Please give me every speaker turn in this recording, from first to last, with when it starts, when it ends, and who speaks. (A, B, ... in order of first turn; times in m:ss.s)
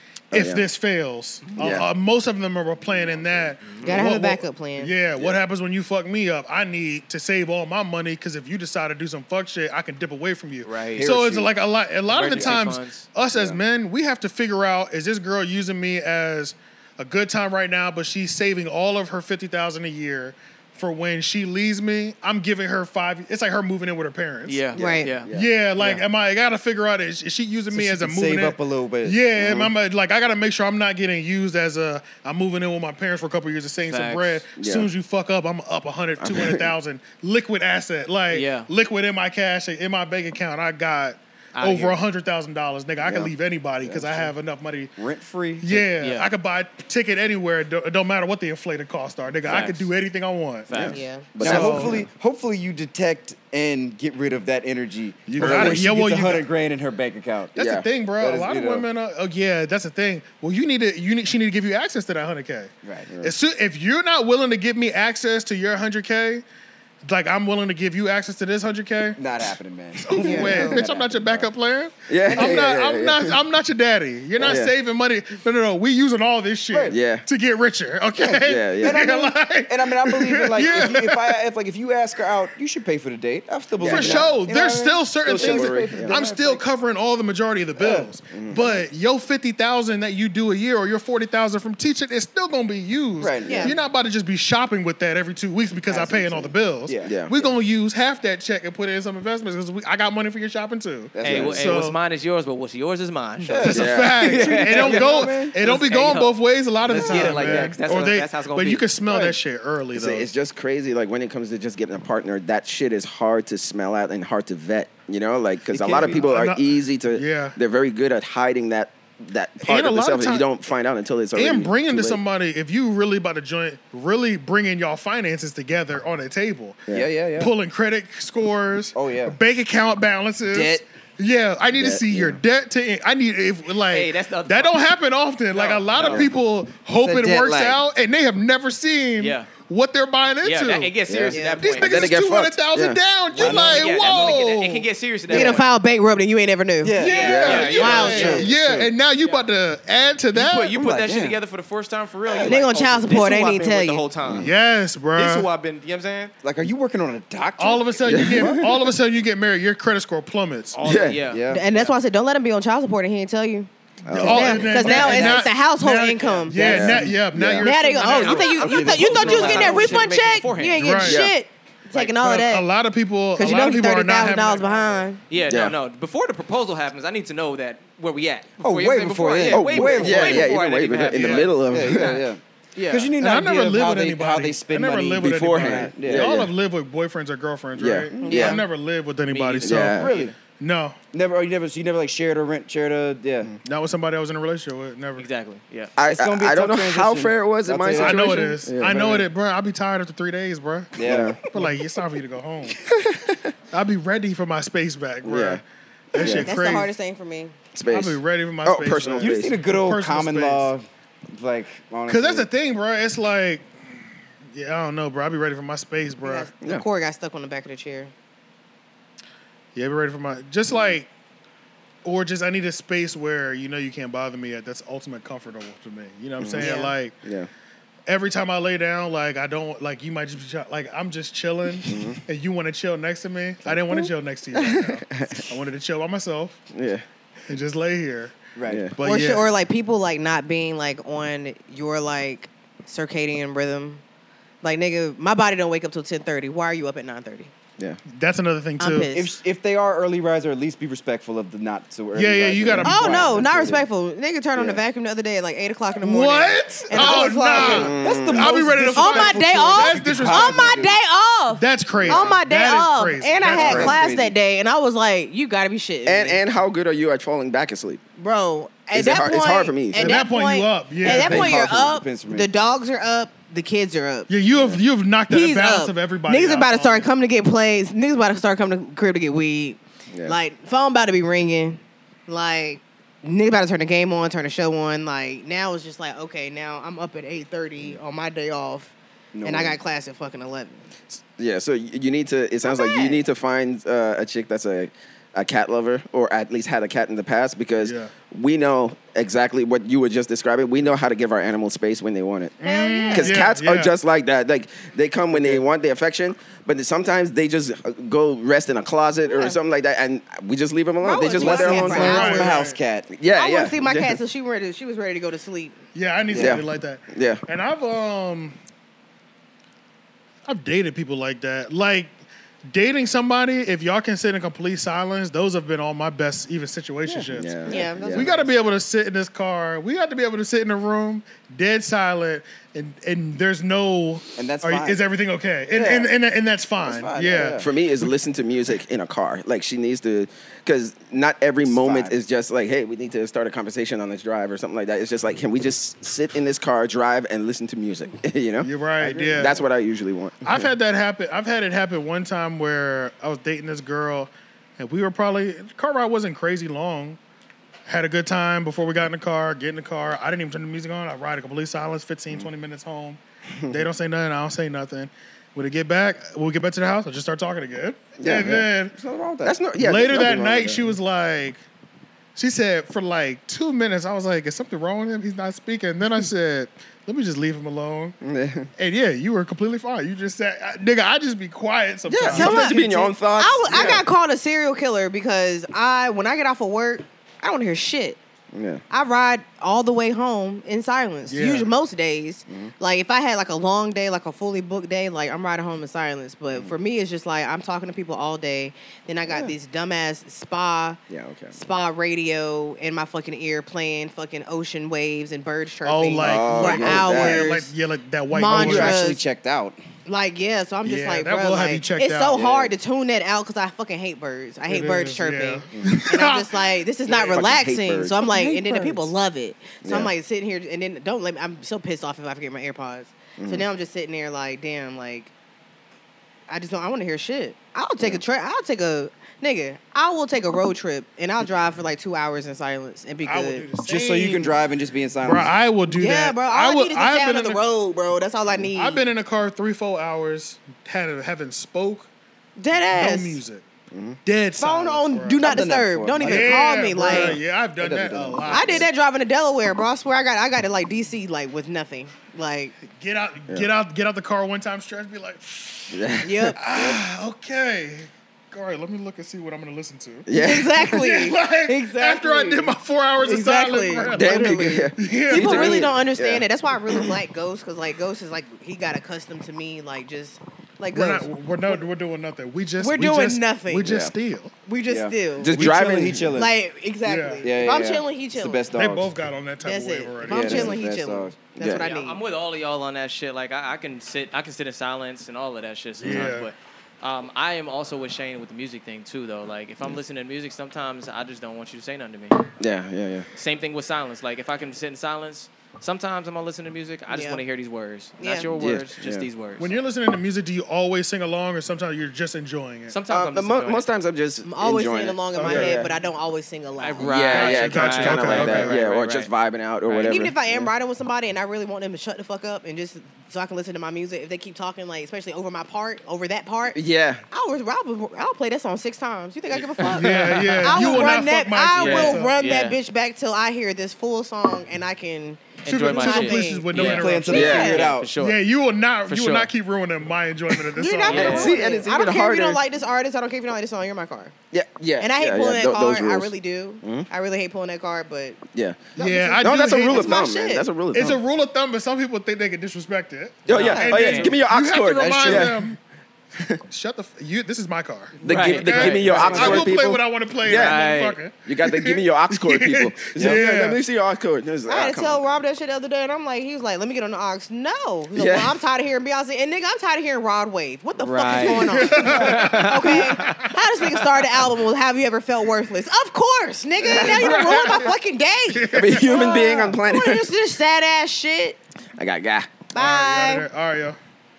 0:00.3-0:00.6 A
0:00.3-0:24.7 B
0:01.6-0:01.9 A
0:02.8-0:03.6 A
0:03.6-0:03.9 C
0:03.8-0:04.9 D
0:10.6-0:11.0 C
0:10.9-0:11.5 E
0:12.1-0:13.0 C
0:12.3-0:12.6 E
0:13.3-0:13.6 E
0:24.4-0:25.3 C
0:24.7-0:25.5 A
0:24.7-0:25.1 D
0:25.3-0:44.9 B
0:27.7-0:29.2 E
0:29.4-0:29.7 A
0:33.8-0:34.4 C
0:34.6-0:34.9 A
0:36.2-0:36.7 A
0:38.3-0:38.7 C
0:41.5-0:42.0 C
0:43.0-0:43.3 A
0:45.0-0:45.8 E
0:45.6-0:50.8 B
0:46.0-0:46.3 C
0:49.4-0:49.9 C
0:50.7-0:51.0 C
0:50.7-0:52.0 A
0:50.8-0:51.3 D
0:51.4-0:52.0 B
0:51.4-0:57.6 E
0:55.2-0:56.5 B
0:55.4-0:55.8 A
0:57.5-1:06.4 B
0:57.6-0:57.8 A
0:58.2-0:58.9 E
1:02.8-1:03.1 E
1:07.0-1:09.2 B
1:09.2-1:11.5 E
1:10.0-1:21.4 B
1:10.2-1:10.8 D
1:12.1-1:13.4 A
1:12.2-1:12.8 E
1:14.4-1:14.7 A
1:16.7-1:17.0 E
1:16.9-1:17.2 A
1:18.2-1:26.6 E
1:18.4-1:19.0 A
1:23.8-1:24.3 A
1:23.8-1:42.0 B
1:25.3-1:26.2 A
1:27.8-1:28.8 E
1:28.3-1:28.6 A
1:33.2-1:33.8 E
1:33.5-1:33.8 D
1:35.9-1:37.5 E
1:37.0-1:37.3 A
1:41.1-1:41.7 E
1:41.2-1:48.8 C
1:43.4-1:45.6 E
1:43.5-1:50.3 B
1:43.7-1:44.2 A
1:46.8-1:47.8 E
1:49.0-1:49.4 E
1:49.9-2:02.2 A
1:55.7-1:56.3 E
1:56.1-1:57.6 B
1:59.6-2:00.4 B
2:01.3-2:20.9 B
2:06.9-2:07.5 E
2:08.9-2:09.4 E
2:10.5-2:10.8 E
2:11.7-2:12.4 A
2:13.9-2:14.8 C
2:15.5-2:16.3 C
2:16.0-2:16.3 E
2:17.0-2:17.8 E
2:19.2-2:19.5 C
2:20.4-2:22.1 C
2:21.1-2:23.0 A
2:21.3-2:21.6 D
2:21.6-2:24.8 B
2:23.3-2:24.3 E
2:23.3-2:25.6 C
2:25.3-2:25.6 E
2:25.3-2:28.5 D
2:26.8-2:28.9 E
2:27.0-2:28.5 C
2:27.0-2:30.8 B
2:27.2-2:28.0 A
2:30.3-2:34.5 C
2:30.8-2:31.4 E
2:32.2-2:32.6 E
2:32.4-2:34.0 D
2:34.2-2:34.5 A
2:34.4-2:35.5 B
2:35.1-2:36.3 C
2:36.4-2:38.9 E
2:37.6-2:40.8 B
2:38.0-2:38.5 A
2:40.7-2:41.9 C
2:40.8-2:41.2 A
2:41.3-2:41.7 E
2:41.5-2:46.9 D
2:44.0-2:45.4 A
2:44.1-2:48.6 B
2:44.9-2:45.2 E
2:46.5-2:47.7 A
2:46.6-2:47.1 E
2:47.6-2:52.7 D
2:47.9-2:50.9 C
2:48.6-2:50.1 E
2:50.8-2:51.2 B
2:51.0-2:51.3 A
2:51.9-2:54.9 B
2:53.4-2:55.2 D
2:55.3-3:02.1 C
2:55.4-2:55.8 A
2:58.6-3:00.5 E
2:59.5-3:02.2 A
3:01.1-3:01.4 B
3:01.7-3:06.3 E
3:02.7-3:03.1 C
3:03.2-3:11.0 B
3:05.2-3:06.5 A
3:07.8-3:08.6 A
3:08.1-3:08.6 E
3:08.3-3:08.6 C
3:09.3-3:09.8 C
3:09.6-3:10.3 A
3:09.9-3:10.3 E
3:11.1-3:13.5 E
3:13.6-3:15.3 B
3:15.2-3:15.9 C
3:16.0-3:19.2 A
3:16.0-3:19.2 E
3:17.9-3:22.9 B
3:21.0-3:21.7 E
3:21.0-3:21.4 A
3:22.8-3:23.5 A
3:23.7-3:25.6 B
3:25.2-3:25.6 A
3:26.1-3:26.9 B
3:26.1-3:26.6 A
3:26.2-3:27.6 D
3:27.7-3:29.6 A
3:27.9-3:30.7 B
3:29.2-3:32.5 E
3:32.1-3:33.7 B
3:34.5-3:36.5 B
3:36.2-3:38.1 D
3:39.7-3:41.1 B
3:40.7-3:41.0 A
3:42.0-3:47.2 B
3:46.4-3:47.5 A
3:46.6-3:46.9 D
3:48.1-3:56.6 B
3:51.8-3:52.2 A
3:53.6-3:55.5 A
3:56.7-3:57.0 A
3:57.5-3:58.3 B
3:58.6-3:58.8 E
3:58.7-3:59.0 A
3:59.0-3:59.5 B
3:59.0-4:04.0 D
4:04.6-4:07.5 D
4:08.1-4:09.1 B
4:08.8-4:09.3 D
4:09.1-4:13.8 E
4:12.1-4:13.5 B
4:12.8-4:17.9 D
4:14.6-4:14.8 E
4:16.0-4:20.9 B
4:16.9-4:21.0 E
4:17.5-4:18.5 A
4:19.0-4:26.4 D
4:21.5-4:24.0 B
4:21.9-4:22.3 E
4:23.4-4:24.4 E
4:26.0-4:28.0 A
4:28.2-4:34.3 D
4:28.9-4:30.2 A
4:29.9-4:31.5 B
4:31.0-4:32.5 E
4:31.0-4:31.6 A
4:34.3-4:37.1 B
4:34.5-4:34.8 A
4:35.3-4:50.8 D
4:40.1-4:40.4 A
4:49.3-4:49.8 E
4:51.1-5:02.6 A
4:52.6-4:53.2 D
4:57.8-4:58.1 B
5:02.6-5:03.9 B
5:02.6-5:03.4 D
5:03.1-5:12.6 A
5:05.3-5:05.6 E
5:09.3-5:09.6 D
5:11.0-5:12.6 D
5:11.3-5:13.1 E
5:11.9-5:12.8 B
5:13.1-5:14.2 A
5:13.3-5:15.8 D
5:15.9-5:18.6 B
5:16.3-5:16.6 E
5:16.3-5:17.4 A
5:20.4-5:22.2 B
5:22.7-5:37.7 B
5:27.0-5:28.5 E
5:27.4-5:28.3 A
5:27.7-5:28.3 D
5:34.4-5:35.0 E
5:35.7-5:36.1 E
5:36.8-5:37.7 E
5:37.3-5:50.7 A
5:41.6-5:42.2 E
5:48.6-5:49.6 B
5:50.4-5:57.2 B
5:57.8-6:08.9 B
6:03.6-6:03.8 A
6:08.2-6:08.7 A
6:09.0-6:09.6 E
6:09.4-6:10.9 A
6:09.8-6:11.6 B
6:12.3-6:18.2 B
6:18.2-6:18.7 A
6:18.8-6:22.7 B
6:22.0-6:24.0 A
6:22.3-6:28.2 D
6:23.7-6:24.0 B
6:28.5-6:28.8 A
6:28.9-6:41.0 D
6:31.3-6:31.7 B
6:41.1-6:41.6 A
6:41.5-6:47.7 D
6:45.8-6:49.0 B
6:46.2-6:47.5 A
6:48.3-6:49.2 D
6:48.5-6:49.8 E
6:50.0-7:05.3 D
6:50.8-6:52.4 B
6:52.3-6:52.7 E
6:54.7-6:56.6 B
6:57.1-6:58.2 A
6:58.2-6:59.1 E
6:59.8-7:00.1 A
7:03.4-7:03.6 A
7:06.5-7:13.7 D
7:13.2-7:14.5 B
7:13.8-7:15.5 E
7:15.2-7:17.6 B
7:15.9-7:19.0 D
7:18.7-7:22.1 B
7:22.6-7:23.4 D
7:22.8-7:23.6 B
7:23.9-7:24.2 A
7:24.2-7:25.6 B
7:24.6-7:27.4 D
7:25.4-7:28.9 E
7:26.2-7:28.9 B
7:28.5-7:32.8 D
7:32.8-7:40.3 B
7:35.9-7:37.0 A
7:36.2-7:36.6 D
7:40.2-7:40.9 A
7:40.3-7:51.8 D
7:40.8-7:45.9 B
7:44.1-7:47.1 A
7:50.9-7:54.5 B
7:52.8-7:54.0 D
7:53.8-7:54.1 A
7:54.6-7:55.5 D
7:54.9-7:56.5 E
7:55.4-7:56.3 A
7:56.3-7:58.7 D
7:57.0-7:57.4 B
7:57.4-7:59.1 E
7:58.7-8:00.8 B
7:59.6-8:02.2 D
8:00.2-8:01.4 E
8:01.6-8:01.9 A
8:01.7-8:12.5 C
8:06.0-8:06.5 B
8:12.6-8:13.3 A
8:13.3-8:19.7 C
8:17.1-8:17.4 D
8:18.2-8:18.5 D
8:18.6-8:19.3 A
8:19.6-8:23.0 B
8:22.9-8:23.8 C
8:23.1-8:25.9 A
8:24.4-8:27.3 D
8:25.3-8:25.9 B
8:26.8-8:29.3 C
8:27.0-8:30.7 A
8:27.3-8:28.8 B
8:29.8-8:30.2 C
8:30.0-8:36.8 D
8:36.7-8:37.2 A
8:37.3-8:47.9 D
8:39.7-8:42.8 C
8:39.9-8:42.3 B
8:45.6-8:48.4 C
8:45.6-8:47.6 B
8:46.7-8:48.1 E
8:47.3-8:47.8 A
8:48.2-8:51.6 B
8:49.1-8:49.5 C
8:50.7-8:54.3 D
8:51.0-8:51.6 C
8:51.1-8:52.6 A
8:54.5-8:57.1 A
8:55.0-8:58.4 D
8:58.5-9:01.2 A
8:59.0-9:00.3 B
8:59.0-9:00.7 D
9:00.9-9:05.8 B
9:03.5-9:04.4 C
9:03.5-9:05.6 A
9:06.7-9:13.8 B
9:08.2-9:09.6 C
9:08.2-9:10.8 A
9:09.0-9:09.7 E
9:10.5-9:11.2 C
9:11.4-9:15.2 A
9:13.1-9:13.4 E
9:14.7-9:31.6 D
9:18.1-9:18.6 A
9:21.0-9:23.5 C
9:21.2-9:22.4 E
9:21.5-9:23.6 B
9:26.8-9:28.0 B
9:26.9-9:27.6 A
9:28.5-9:29.5 B
9:28.7-9:30.3 A
9:32.0-9:32.6 A
9:32.7-9:33.5 D
9:32.7-9:34.0 B